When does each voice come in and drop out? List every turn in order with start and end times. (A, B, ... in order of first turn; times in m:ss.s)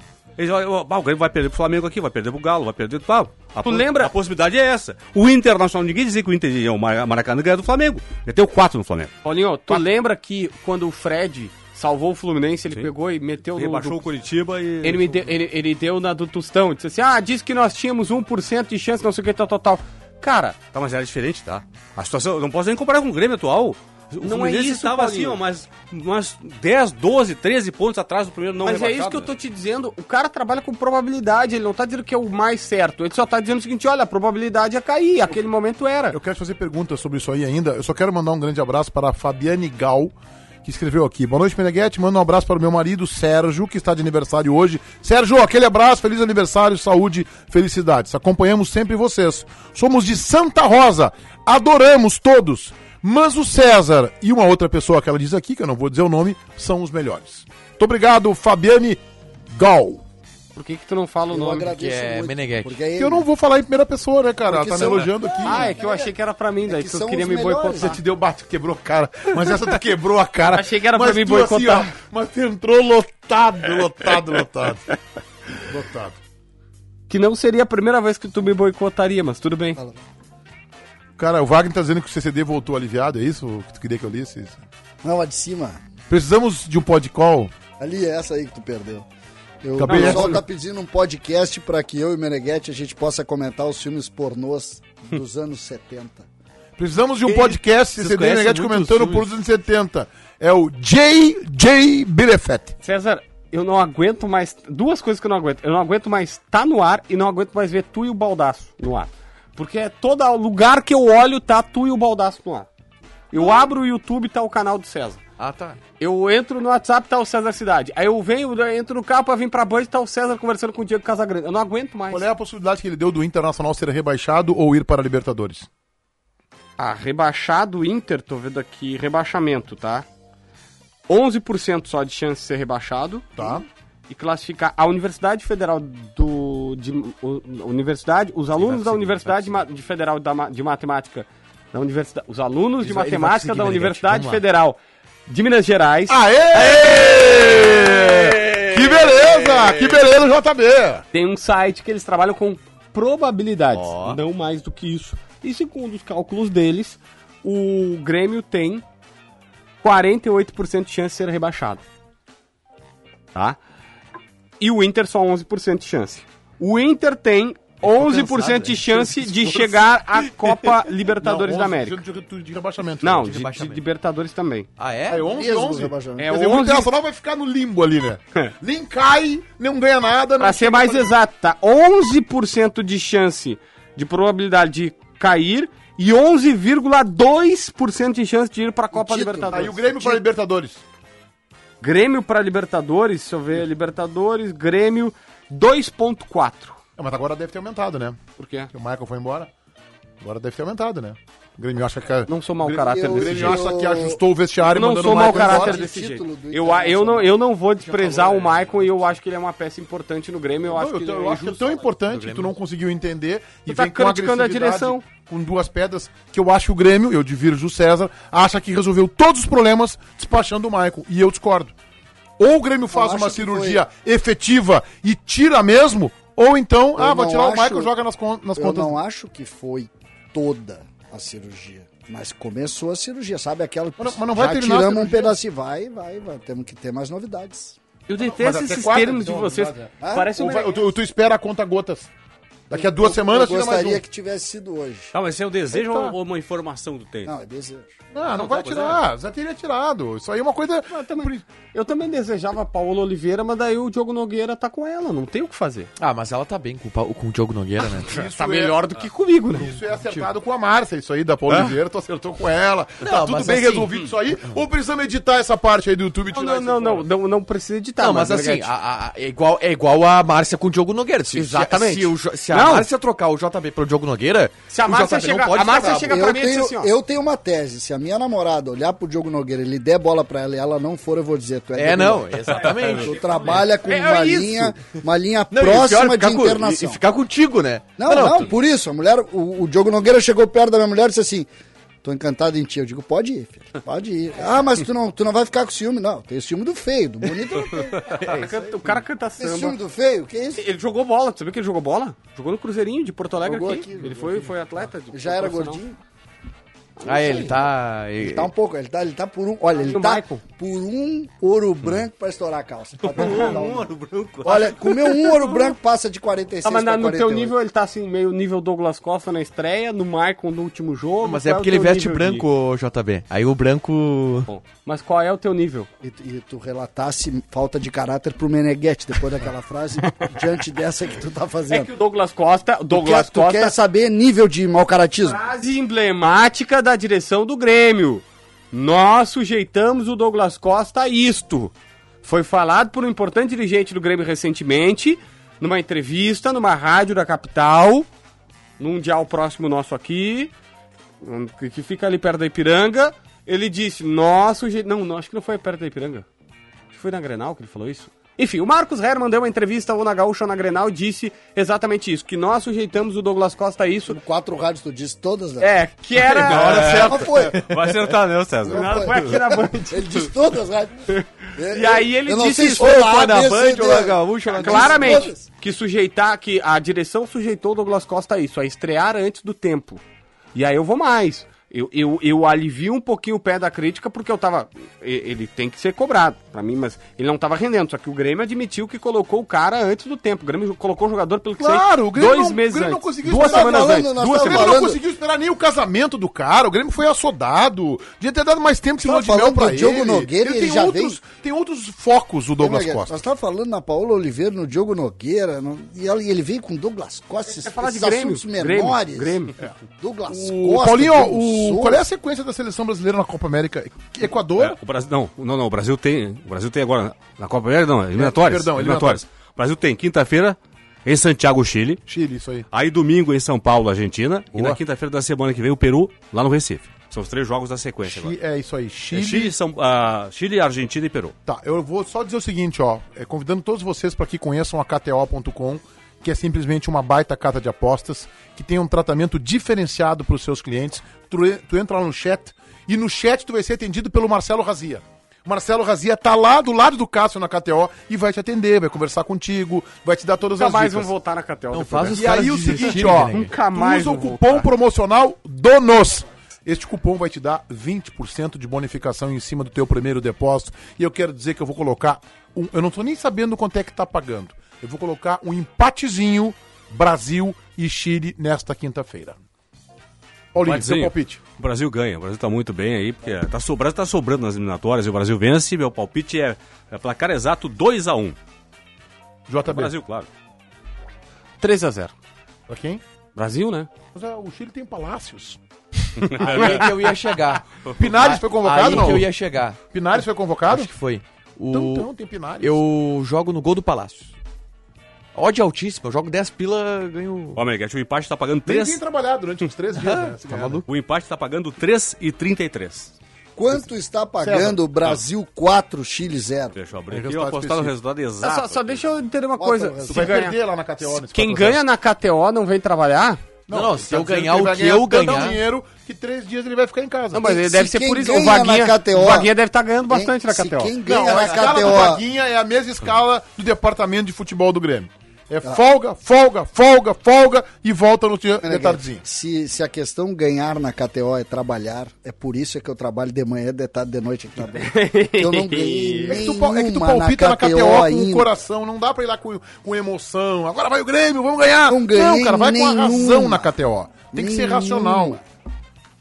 0:00.4-0:09.1 A
0:03.6-0:04.1 B
0:09.2-0:14.0 B
0:13.6-0:15.3 A
0:14.8-0:20.6 B
0:20.7-0:29.3 A
0:24.2-0:25.4 B
0:28.6-0:36.2 B
0:36.1-0:59.0 C
0:59.5-1:00.0 C
1:00.5-1:01.7 B
1:01.3-1:03.3 D
1:01.7-1:02.8 E
1:02.9-1:05.7 C
1:04.4-1:06.1 D
1:05.4-1:08.0 B
1:06.6-1:08.0 D
1:07.8-1:15.0 C
1:10.5-1:11.9 B
1:15.6-1:16.2 C
1:17.1-1:19.8 B
1:19.8-1:20.0 D
1:21.2-1:24.6 C
1:25.0-1:25.8 D
1:26.1-1:27.5 C
1:27.8-1:29.1 D
1:29.6-1:36.2 D
1:29.8-1:30.4 C
1:29.8-1:30.3 B
1:36.8-1:42.7 C
1:37.2-1:39.3 E
1:42.8-1:52.7 B
1:53.3-1:55.2 B
1:55.4-1:55.8 E
1:56.0-2:02.2 B
2:02.1-2:05.7 C
2:06.8-2:10.0 B
2:11.1-2:13.5 B
2:13.4-2:13.6 C
2:14.1-2:26.2 B
2:18.7-2:19.1 E
2:22.8-2:24.4 E
2:26.1-2:31.0 C
2:26.5-2:30.0 E
2:31.1-2:38.8 B
2:33.7-2:34.2 E
2:39.8-2:41.8 B
2:44.6-2:52.0 B
2:47.8-2:50.0 C
2:50.9-2:53.3 C
2:53.0-2:54.7 B
2:53.2-2:53.8 E
2:54.8-2:55.3 E
2:55.1-3:01.1 C
2:55.2-2:56.3 D
2:56.2-2:56.9 B
3:00.4-3:09.8 B
3:08.9-3:10.2 D
3:09.5-3:10.8 C
3:11.8-3:16.8 B
3:17.0-3:18.2 C
3:18.4-3:18.7 B
3:18.7-3:19.5 C
3:20.2-3:25.8 C
3:22.3-3:23.6 B
3:22.8-3:24.2 D
3:24.6-3:31.6 B
3:25.0-3:27.4 D
3:27.8-3:29.0 E
3:30.7-3:41.7 C
3:31.9-3:32.5 E
3:33.7-3:35.0 B
3:42.4-3:49.0 C
3:42.9-3:43.8 D
3:47.0-3:47.9 D
3:48.6-3:57.8 D
3:54.0-3:55.3 C
3:58.1-4:00.8 B
3:58.2-4:02.1 C
4:00.0-4:00.3 D
4:02.7-4:04.0 C
4:02.7-4:05.1 D
4:05.1-4:07.3 A
4:05.7-4:06.1 C
4:07.2-4:08.0 D
4:08.1-4:11.4 C
4:08.4-4:09.0 A
4:10.9-4:15.9 B
4:16.0-4:18.1 E
4:18.0-4:19.7 B
4:18.0-4:18.9 C
4:19.5-4:27.1 C
4:23.0-4:23.9 E
4:26.3-4:28.7 B
4:28.0-4:36.2 E
4:31.3-4:32.9 B
4:34.7-4:36.9 B
4:36.0-4:47.0 D
4:41.8-4:43.4 E
4:43.5-4:44.8 B
4:45.5-4:48.5 E
4:48.0-4:51.5 D
4:52.0-5:00.7 D
4:58.1-4:59.8 B
5:00.6-5:05.8 B
5:03.4-5:04.5 D
5:05.1-5:06.0 D
5:07.0-5:07.6 B
5:07.0-5:08.5 E
5:08.2-5:13.9 D
5:09.8-5:10.4 B
5:13.0-5:15.0 A
5:13.2-5:13.5 B
5:14.4-5:17.6 D
5:16.6-5:22.4 B
5:21.2-5:24.5 E
5:24.5-5:25.9 B
5:26.0-5:31.9 D
5:31.7-5:33.8 B
5:32.9-5:35.4 D
5:35.2-5:41.7 B
5:42.2-5:48.1 B
5:48.8-5:50.5 B
5:51.2-5:56.2 B
5:56.9-6:04.2 B
6:04.1-6:05.7 D
6:05.6-6:07.0 B
6:06.2-6:08.2 E
6:06.5-6:09.1 A
6:06.7-6:07.6 D
6:08.6-6:15.4 D
6:08.7-6:10.3 B
6:11.1-6:13.0 B
6:12.8-6:15.3 E
6:14.5-6:20.0 B
6:20.5-6:34.8 B
6:31.6-6:43.2 C
6:33.2-6:35.0 D
6:39.0-6:41.2 D
6:42.6-6:49.4 D
6:47.4-6:49.5 B
6:50.0-6:52.1 D
6:50.3-6:54.8 C
6:54.6-7:02.0 A
6:58.2-6:59.2 C
7:02.1-7:02.6 C
7:02.7-7:08.3 A
7:04.5-7:04.8 C
7:08.0-7:09.5 C
7:09.1-7:11.3 A
7:11.4-7:31.1 C
7:30.6-7:34.7 B
7:31.7-7:33.5 E
7:32.1-7:49.4 C
7:50.5-7:51.4 C
7:50.6-7:58.4 A
7:59.5-7:59.9 C
7:59.6-8:00.3 A
8:01.6-8:02.1 B
8:02.7-8:03.0 C
8:03.4-8:03.9 B
8:04.1-8:05.6 C
8:06.2-8:06.7 B
8:06.4-8:06.9 C
8:06.4-8:09.8 E
8:08.0-8:09.4 C
8:09.9-8:10.9 C
8:10.7-8:12.1 E
8:11.7-8:12.8 C
8:12.6-8:14.3 E
8:15.3-8:17.6 E
8:17.6-8:19.0 A
8:18.6-8:20.8 C
8:19.9-8:20.8 E
8:20.8-8:23.1 A
8:23.6-8:26.8 D
8:24.4-8:24.7 C
8:26.7-8:29.0 A
8:27.1-8:27.9 C
8:28.4-8:33.4 B
8:29.6-8:30.4 D
8:30.1-8:31.8 C
8:33.7-8:37.5 C
8:33.7-8:35.6 E
8:37.3-8:41.5 B
8:37.4-8:39.5 D
8:40.1-8:42.2 D
8:41.0-8:49.2 C
8:48.6-8:58.5 D
8:54.7-8:56.4 B
8:56.3-9:05.4 C
9:01.9-9:03.7 D
9:04.3-9:05.4 D